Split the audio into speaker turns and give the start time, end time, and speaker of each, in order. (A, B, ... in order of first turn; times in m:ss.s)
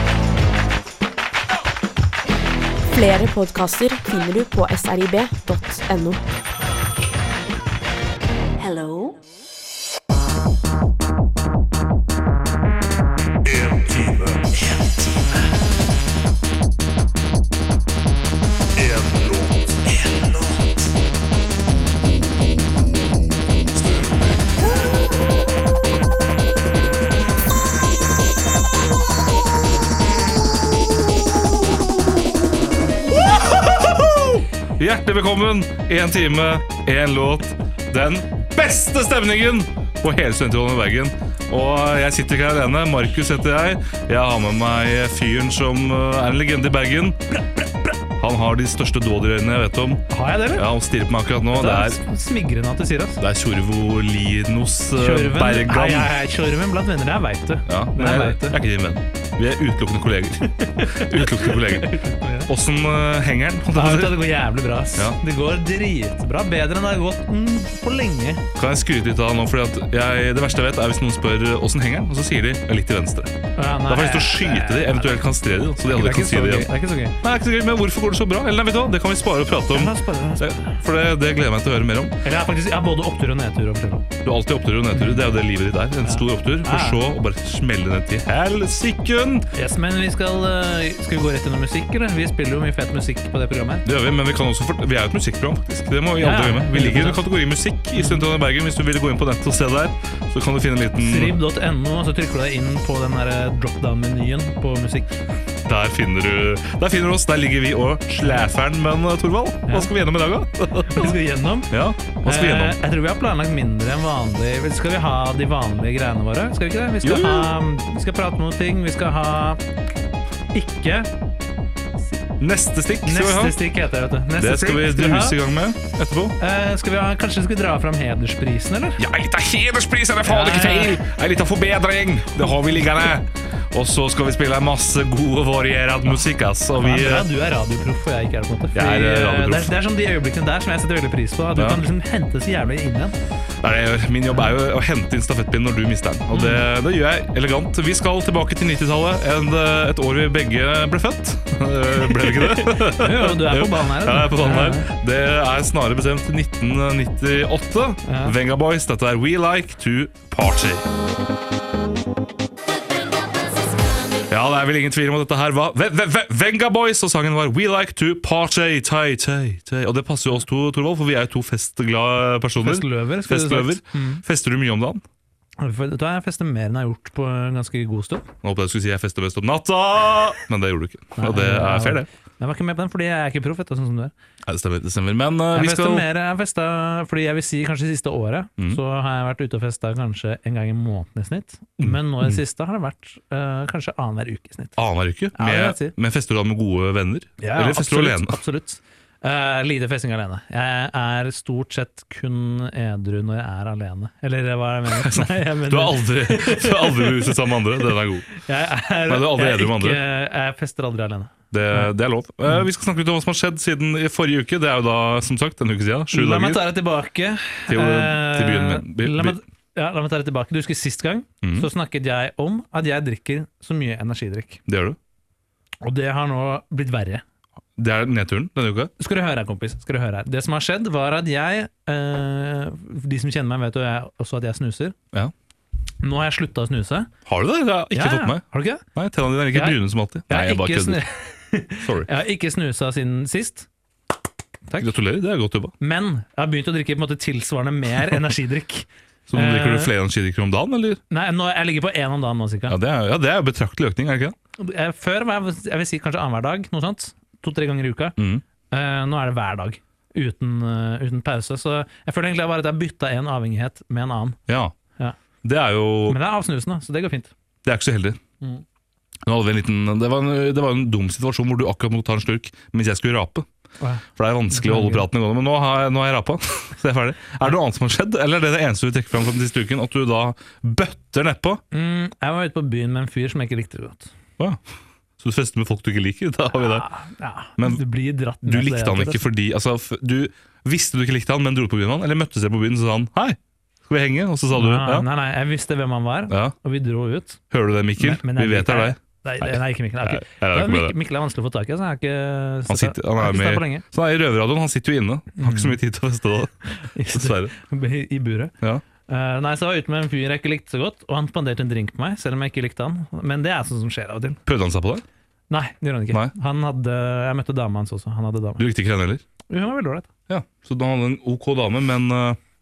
0:02.9-0:06.2 A
0:08.6-0:09.2 A
0:14.0-0:14.4 B
0:18.9-0:19.9 B
0:33.0-0:47.2 B
0:48.2-0:52.0 B
0:50.1-0:50.7 C
0:51.5-0:53.2 C
0:53.2-0:56.1 B
0:55.0-0:58.6 C
0:57.7-1:04.2 B
1:00.5-1:02.5 C
1:03.7-1:08.4 C
1:08.6-1:13.3 B
1:13.6-1:17.2 C
1:13.9-1:16.7 B
1:17.2-1:22.2 B
1:19.7-1:20.8 C
1:22.2-1:24.1 C
1:24.2-1:29.5 B
1:24.9-1:25.3 C
1:26.0-1:27.0 C
1:29.5-1:33.8 C
1:33.8-1:41.4 B
1:36.2-1:37.2 C
1:38.0-1:38.2 C
1:41.0-1:45.2 C
1:45.7-1:51.2 B
1:49.7-1:49.9 C
1:50.9-1:59.6 C
1:51.7-1:52.8 B
1:57.0-1:57.5 B
2:00.5-2:01.1 C
2:02.4-2:03.6 B
2:03.0-2:05.4 C
2:04.4-2:06.4 B
2:06.4-2:09.0 C
2:09.0-2:17.3 B
2:10.2-2:11.0 C
2:16.8-2:23.2 C
2:18.7-2:19.7 B
2:21.6-2:21.8 B
2:23.6-2:40.9 B
2:26.3-2:26.7 C
2:32.0-2:34.9 C
2:38.0-2:38.4 C
2:44.3-2:55.0 B
2:52.6-2:54.2 C
2:55.6-2:58.3 C
2:58.4-3:02.1 B
3:01.2-3:04.1 C
3:04.5-3:06.1 B
3:05.5-3:14.8 C
3:11.8-3:12.4 B
3:14.8-3:18.4 B
3:15.3-3:16.0 C
3:17.4-3:31.9 C
3:24.9-3:28.3 B
3:29.1-3:30.0 B
3:31.5-3:36.6 B
3:36.1-3:44.6 C
3:37.7-3:39.4 B
3:41.4-3:41.7 B
3:44.7-3:45.0 B
3:45.8-3:47.2 C
3:47.8-3:48.9 B
3:49.0-3:55.0 C
3:56.0-3:57.1 C
3:57.3-4:01.0 B
3:57.9-3:58.8 C
3:59.5-4:03.7 C
4:01.8-4:02.1 B
4:04.7-4:04.9 C
4:04.8-4:05.7 B
4:05.8-4:09.9 C
4:09.3-4:11.0 B
4:11.1-4:12.8 C
4:12.7-4:14.4 B
4:14.6-4:18.2 C
4:18.2-4:18.4 B
4:18.7-4:24.4 C
4:24.5-4:24.8 B
4:25.4-4:26.2 B
4:26.1-4:27.3 C
4:27.6-4:28.2 B
4:29.2-4:33.5 B
4:33.8-4:35.1 C
4:34.2-4:41.6 B
4:41.7-4:44.1 C
4:45.2-4:46.9 B
4:46.5-4:49.2 C
4:47.6-4:47.8 B
4:48.4-4:55.1 B
4:54.5-4:57.4 C
4:57.5-5:00.9 B
4:58.0-5:03.8 C
5:02.7-5:06.5 B
5:05.4-5:05.8 C
5:06.8-5:08.5 C
5:07.1-5:07.5 B
5:09.1-5:14.4 C
5:14.5-5:15.0 B
5:15.5-5:18.6 C
5:18.6-5:19.2 B
5:19.5-5:20.1 C
5:20.3-5:22.4 B